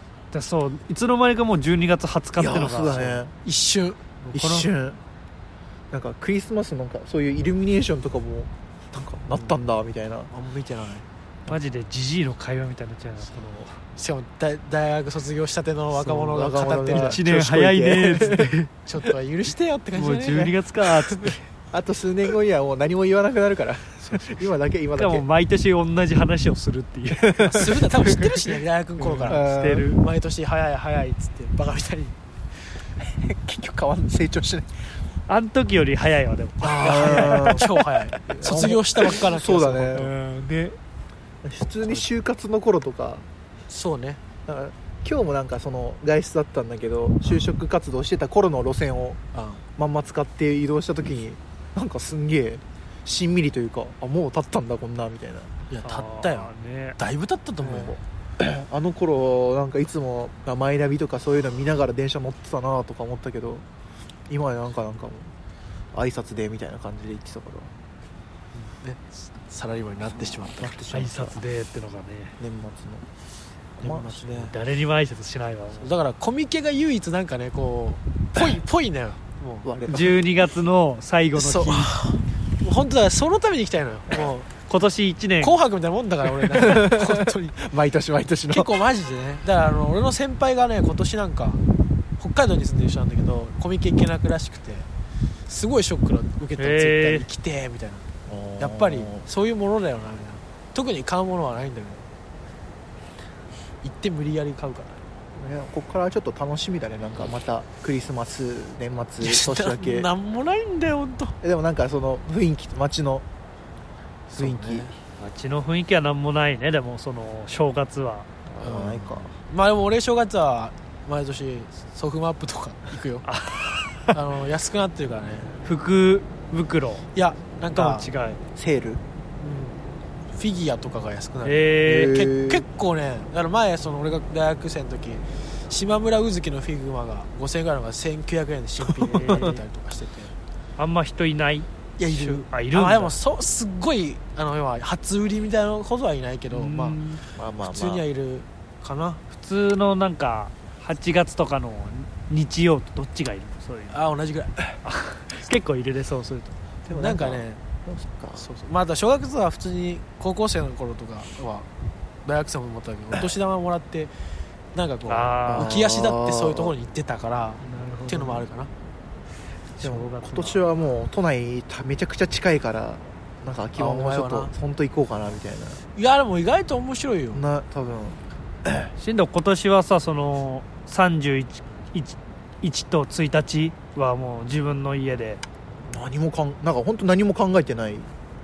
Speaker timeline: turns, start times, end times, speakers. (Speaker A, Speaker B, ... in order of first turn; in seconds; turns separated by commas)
Speaker A: 0.3-3.2, Speaker B: 2.4-3.3, Speaker C: 3.4-4.7, Speaker B: 4.3-5.0, Speaker B: 5.9-10.3, Speaker C: 10.3-11.5, Speaker A: 11.5-13.8, Speaker C: 13.9-17.2, Speaker B: 16.0-18.5, Speaker A: 16.9-18.7, Speaker C: 18.9-20.5, Speaker A: 19.9-21.4, Speaker B: 21.7-25.2, Speaker C: 24.0-24.4, Speaker A: 25.0-30.0, Speaker B: 27.2-27.7, Speaker C: 27.4-32.2, Speaker B: 29.2-29.9, Speaker B: 33.0-34.7, Speaker A: 35.3-37.7, Speaker C: 36.6-40.1, Speaker B: 36.8-40.1, Speaker A: 39.9-40.8, Speaker B: 41.4-43.3, Speaker C: 43.7-44.2, Speaker B: 44.5-49.2, Speaker C: 49.3-49.6, Speaker B: 49.8-55.5, Speaker C: 55.7-58.0, Speaker A: 55.8-57.0, Speaker B: 57.6-63.6, Speaker B: 64.3-65.3, Speaker B: 65.9-67.7, Speaker C: 68.5-70.7, Speaker B: 70.3-71.4, Speaker A: 70.9-72.3, Speaker B: 72.4-73.0, Speaker B: 73.8-74.2, Speaker C: 73.8-74.5, Speaker A: 74.3-76.0, Speaker C: 75.8-79.7, Speaker B: 79.6-80.2, Speaker A: 79.9-82.0, Speaker C: 81.3-84.5, Speaker A: 84.5-85.6, Speaker C: 85.4-87.6, Speaker B: 86.4-88.7, Speaker C: 88.5-91.6, Speaker C: 92.2-94.9, Speaker C: 95.5-98.0, Speaker A: 96.6-97.3, Speaker B: 98.3-99.2, Speaker C: 98.6-102.0, Speaker C: 103.8-105.0, Speaker B: 105.3-110.1, Speaker C: 109.2-111.4, Speaker B: 111.4-113.2, Speaker C: 114.3-114.9, Speaker B: 114.4-114.9, Speaker A: 115.2-118.3, Speaker B: 118.5-119.3, Speaker C: 118.6-123.3, Speaker A: 123.2-124.2, Speaker C: 124.1-125.5, Speaker A: 125.6-127.1, Speaker C: 127.1-128.1, Speaker A: 127.7-128.4, Speaker B: 128.6-129.0, Speaker C: 129.4-129.8, Speaker C: 130.3-140.3, Speaker A: 131.4-132.3, Speaker B: 131.8-132.6, Speaker A: 139.0-139.6, Speaker A: 140.8-143.2, Speaker C: 142.0-147.0, Speaker A: 146.5-147.2, Speaker B: 147.3-148.0, Speaker C: 147.6-149.2, Speaker A: 149.3-154.0, Speaker C: 153.9-154.6, Speaker A: 154.8-156.6, Speaker B: 156.9-158.5, Speaker C: 156.9-157.6, Speaker C: 158.4-161.7, Speaker C: 162.2-164.1, Speaker C: 164.7-168.7, Speaker A: 165.1-165.8, Speaker B: 165.5-166.7, Speaker A: 167.6-168.5, Speaker A: 169.7-170.6, Speaker B: 169.8-175.8, Speaker C: 173.8-174.5, Speaker C: 175.9-177.4, Speaker B: 177.3-178.9, Speaker A: 179.0-185.4, Speaker B: 185.8-188.1